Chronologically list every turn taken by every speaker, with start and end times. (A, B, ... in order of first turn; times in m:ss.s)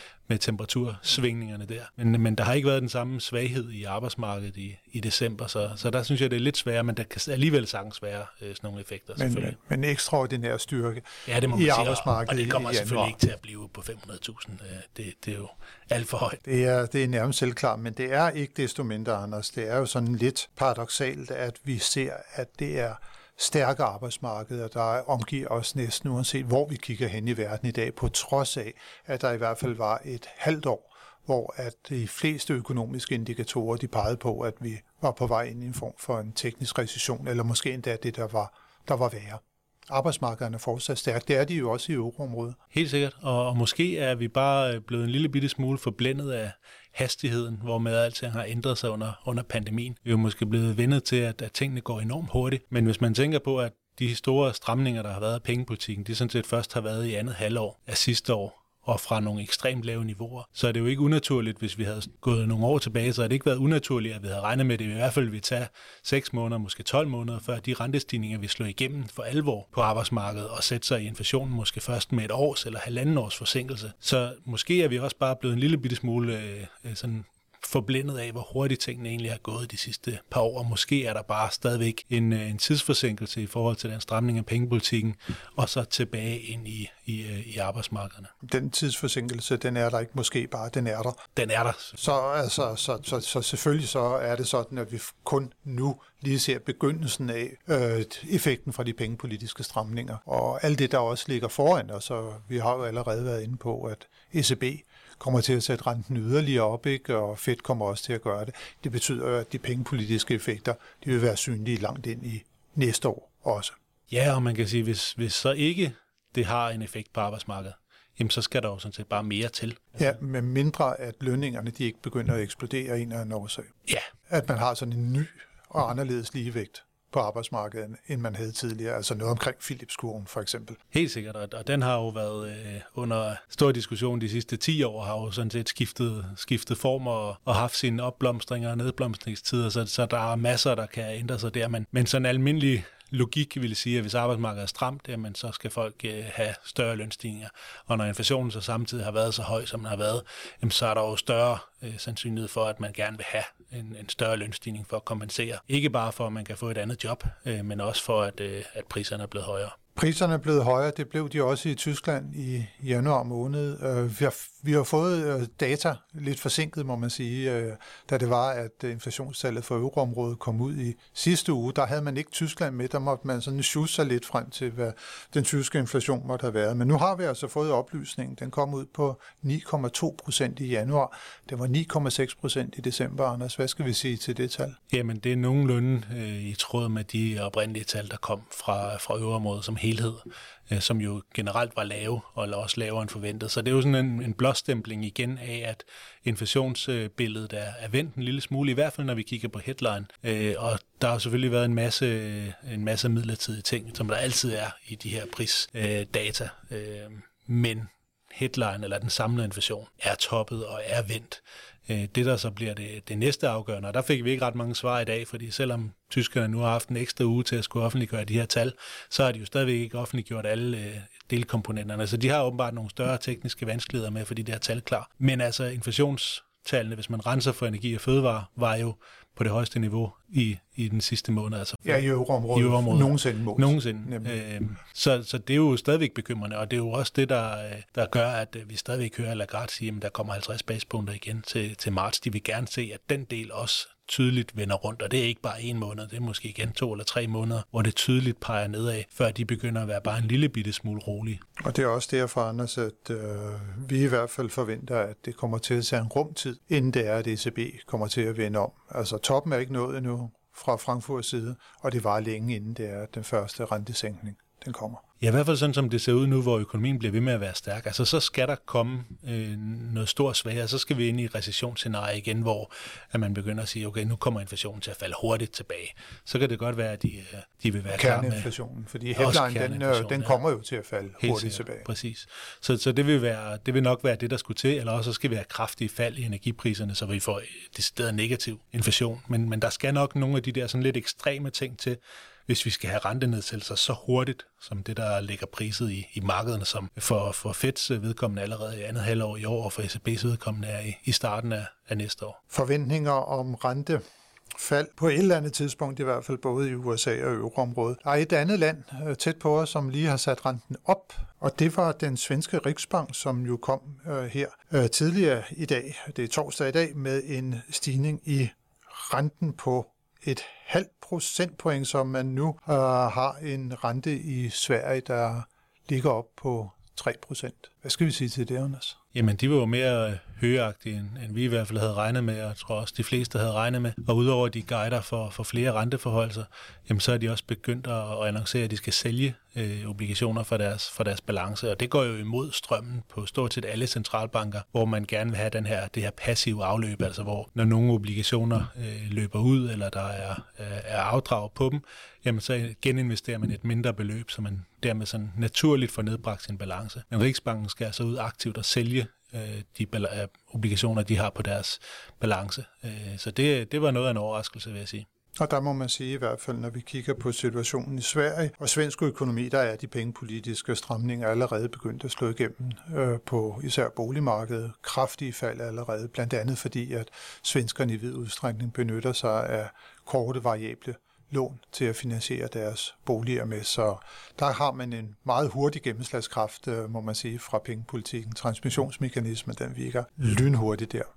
0:00.3-0:09.6 A
0:09.2-0:13.2 B
0:11.2-0:16.4 A
0:16.4-0:42.6 B
0:42.7-1:28.3 A
1:28.4-1:31.2 B
1:31.4-1:32.0 A
1:32.0-1:53.8 B
1:54.1-2:00.1 A
2:00.0-2:03.7 B
2:04.3-2:10.8 B
2:10.9-2:39.8 A
2:40.0-3:04.8 B
3:04.9-4:11.4 A
3:51.8-3:54.4 B
4:11.6-4:25.0 B
4:25.2-4:38.5 A
4:37.9-4:41.9 B
4:39.2-4:40.4 A
4:41.2-5:02.4 A
5:02.5-5:04.0 B
5:04.6-5:29.0 B
5:29.1-6:05.0 A
6:05.4-6:31.1 B